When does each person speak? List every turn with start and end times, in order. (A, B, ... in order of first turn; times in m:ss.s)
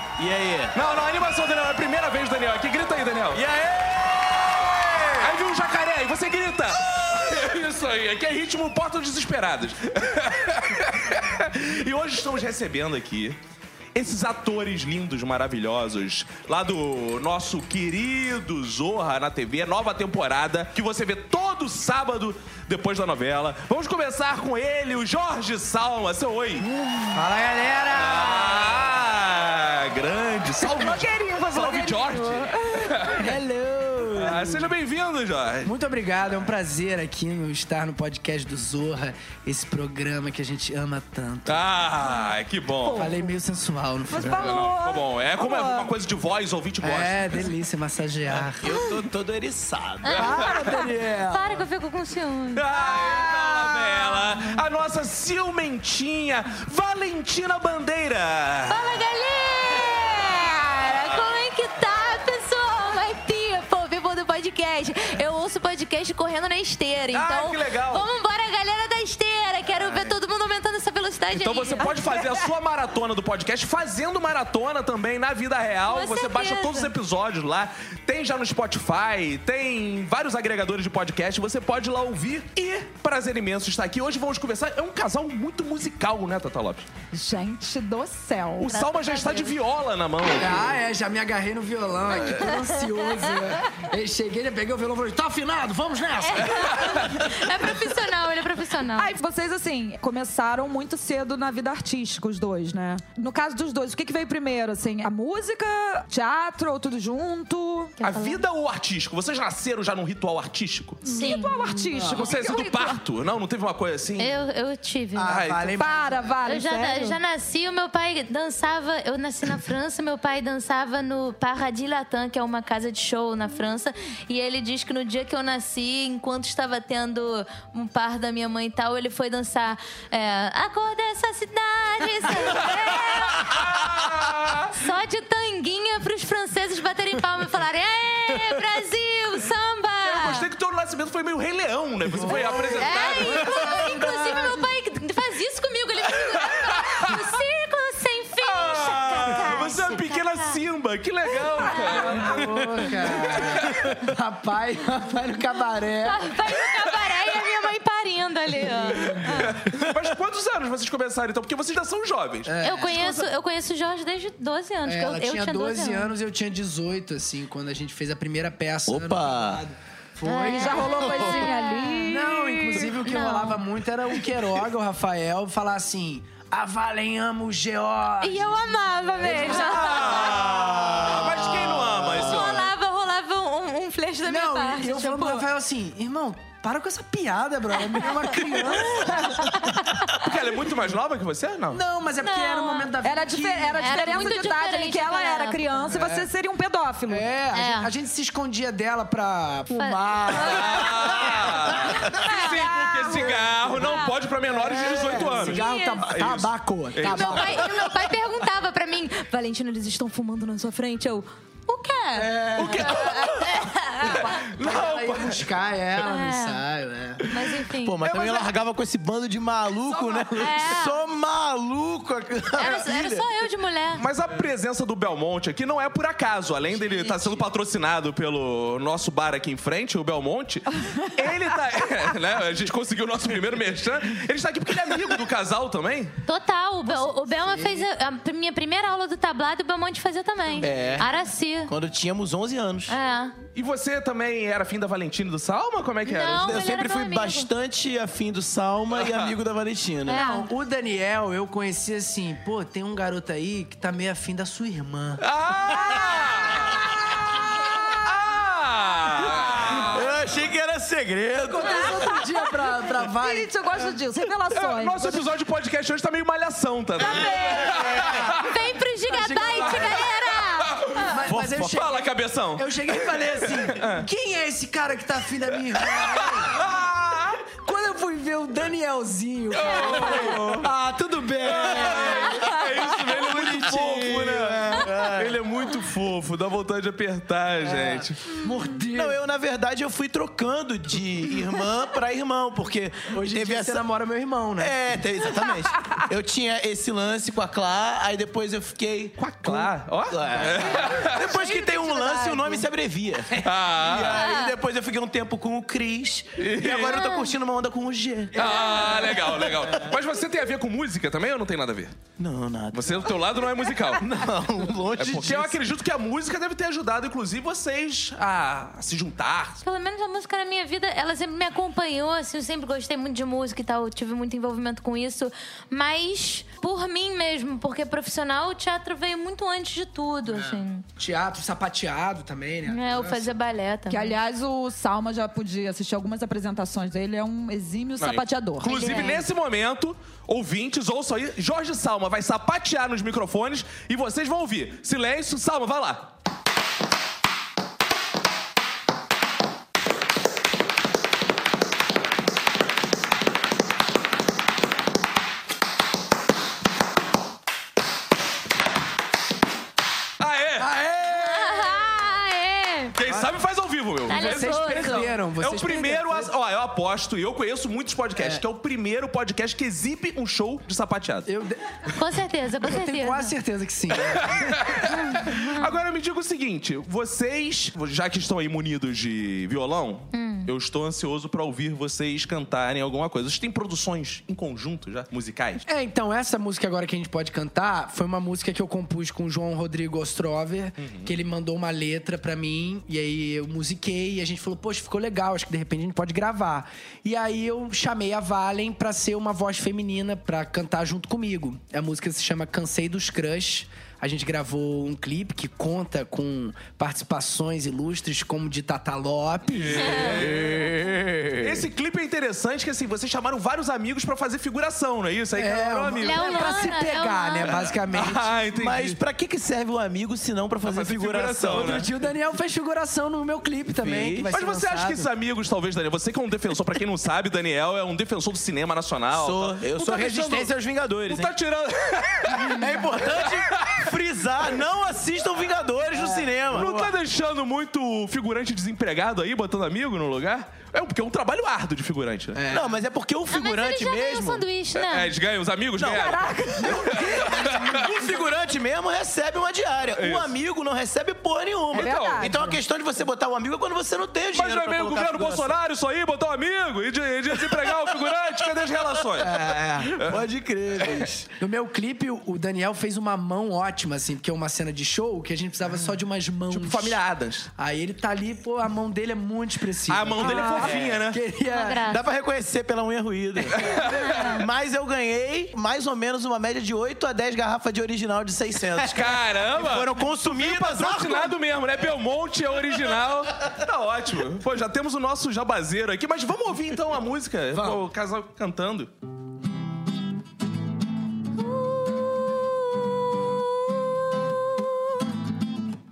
0:00.2-0:00.8 A
0:00.7-0:03.4 B
0:03.3-0:05.3 A
0:05.2-0:13.4 B
0:13.9-0:26.7 B
0:26.7-0:28.8 C
0:27.9-0:33.3 B
0:30.6-0:33.1 D
0:33.1-0:34.7 C
0:34.1-0:35.7 B
0:35.6-0:41.6 C
0:41.5-0:43.1 B
0:42.8-0:43.3 D
0:42.9-0:44.6 C
0:44.1-0:45.9 D
0:44.2-0:47.5 B
0:46.8-0:48.8 C
0:48.5-0:50.3 A
0:50.0-0:53.1 E
0:50.1-0:51.7 C
0:52.5-0:58.8 B
0:53.1-0:53.6 C
0:58.7-1:11.9 E
1:07.1-1:08.0 B
1:09.8-1:10.1 B
1:11.3-1:26.9 B
1:11.9-1:12.4 D
1:15.8-1:16.9 E
1:27.1-1:28.7 D
1:28.6-1:30.6 B
1:28.6-1:29.6 E
1:30.3-1:37.6 C
1:32.3-1:32.9 E
1:36.2-1:39.1 E
1:39.0-1:47.9 D
1:48.0-1:48.4 E
1:48.0-1:51.0 B
1:51.0-1:53.0 D
1:51.0-1:51.8 E
1:52.1-1:54.4 B
1:54.2-1:55.4 E
1:55.1-1:56.4 C
1:55.3-1:55.8 B
1:55.8-1:57.2 D
1:56.4-2:13.5 E
2:12.5-2:14.8 B
2:14.7-2:20.4 E
2:20.0-2:23.9 B
2:22.2-2:24.6 C
2:22.2-2:30.6 E
2:26.5-2:27.2 B
2:28.4-2:33.9 B
2:31.6-2:32.4 E
2:31.9-2:36.4 C
2:36.0-2:39.6 E
2:38.6-2:39.6 C
2:39.1-2:42.5 B
2:42.4-2:43.2 C
2:42.6-2:46.1 E
2:44.8-2:51.1 C
2:48.9-2:49.6 A
2:50.2-2:53.6 E
2:50.4-2:52.3 D
2:52.1-2:58.5 C
2:58.2-3:00.5 E
2:59.2-3:00.4 C
2:59.4-3:02.7 B
3:00.4-3:01.4 A
3:01.9-3:02.2 A
3:02.1-3:05.4 E
3:04.2-3:09.9 C
3:08.0-3:10.1 E
3:10.1-3:11.8 B
3:11.7-3:14.3 C
3:12.2-3:12.9 E
3:13.0-3:17.2 D
3:13.8-3:15.9 E
3:15.9-3:16.3 C
3:17.1-3:22.0 C
3:17.5-3:17.9 E
3:19.7-3:21.0 E
3:20.3-3:27.7 B
3:22.1-3:24.1 E
3:22.2-3:23.4 D
3:24.5-3:27.8 C
3:24.8-3:26.1 E
3:27.0-3:34.3 E
3:32.1-3:37.3 C
3:32.7-3:33.2 B
3:34.0-3:35.4 B
3:36.0-3:36.6 E
3:37.2-3:38.1 E
3:37.8-3:43.2 A
3:38.0-3:38.5 B
3:40.4-3:41.0 E
3:42.6-3:44.0 E
3:44.0-3:56.2 B
3:46.7-3:47.4 E
3:56.2-4:01.7 E
3:57.0-3:57.9 C
4:00.6-4:01.1 A
4:01.7-4:02.9 A
4:02.9-4:03.3 E
4:03.5-4:06.5 B
4:06.0-4:07.5 E
4:06.3-4:10.2 A
4:09.0-4:09.3 B
4:10.1-4:10.5 E
4:10.1-4:15.2 C
4:15.2-4:16.8 B
4:17.9-4:20.1 B
4:19.4-4:22.2 A
4:21.4-4:23.5 C
4:23.1-4:25.3 D
4:24.5-4:28.5 B
4:27.0-4:27.9 A
4:27.1-4:30.3 C
4:28.4-4:30.9 E
4:29.6-4:30.0 B
4:30.6-4:34.1 B
4:30.9-4:36.6 C
4:31.2-4:31.8 A
4:35.8-4:37.4 B
4:37.5-4:44.6 C
4:39.5-4:40.7 B
4:41.4-4:48.2 B
4:43.1-4:45.4 A
4:47.6-4:49.2 C
4:48.9-4:53.8 A
4:53.1-4:54.8 C
4:54.6-5:08.6 A
4:59.2-5:01.3 B
5:01.3-5:02.6 D
5:03.3-5:04.3 B
5:04.1-5:04.5 E
5:06.4-5:07.0 B
5:06.8-5:07.3 E
5:08.3-5:11.9 B
5:08.4-5:09.7 C
5:08.6-5:09.1 E
5:12.2-5:13.2 A
5:12.7-5:14.1 B
5:13.9-5:15.6 A
5:15.0-5:19.6 B
5:19.6-5:30.8 E
5:30.3-5:33.4 C
5:32.7-5:34.1 E
5:33.9-5:39.2 D
5:38.0-5:46.1 B
5:38.7-5:39.2 E
6:00.2-6:00.7 B
6:00.6-6:01.9 C
6:01.1-6:03.0 E
6:03.0-6:11.3 B
6:03.0-6:03.3 C
6:04.1-6:06.3 C
6:04.1-6:05.1 E
6:08.2-6:08.4 C
6:11.2-6:12.0 C
6:11.9-6:13.3 E
6:12.6-6:15.0 C
6:14.1-6:25.6 B
6:14.9-6:15.6 E
6:20.1-6:20.5 E
6:25.6-6:50.3 C
6:30.8-6:31.1 B
6:49.5-6:50.8 B
6:49.8-6:50.1 E
6:50.2-6:51.6 A
6:51.4-6:56.5 B
6:55.3-6:58.3 C
6:56.0-6:57.6 E
6:57.4-6:59.0 B
6:58.5-7:01.9 A
7:00.6-7:01.9 B
7:01.5-7:05.1 C
7:03.8-7:04.3 A
7:04.3-7:10.5 B
7:09.1-7:11.3 A
7:11.1-7:13.9 B
7:12.3-7:16.8 A
7:15.9-7:16.9 C
7:16.5-7:22.4 B
7:22.3-7:22.8 C
7:22.5-7:24.4 A
7:23.3-7:25.1 E
7:24.7-7:27.9 B
7:25.8-7:26.2 A
7:25.8-7:27.2 D
7:26.7-7:35.6 A
7:26.7-7:27.6 C
7:29.9-7:30.3 B
7:31.7-7:32.3 B
7:31.7-7:32.6 D
7:34.3-7:40.2 B
7:39.2-7:40.1 C
7:40.0-7:41.3 A
7:40.8-7:41.1 B
7:41.4-7:47.0 C
7:46.5-7:47.5 B
7:47.6-7:51.9 C
7:49.9-7:51.2 B
7:50.5-7:51.0 A
7:51.5-7:52.0 E
7:51.8-8:01.3 A
7:53.4-7:54.2 C
7:53.5-7:54.3 B
7:53.9-7:54.4 E
7:58.8-8:08.9 B
8:07.5-8:07.8 A
8:11.4-8:14.6 E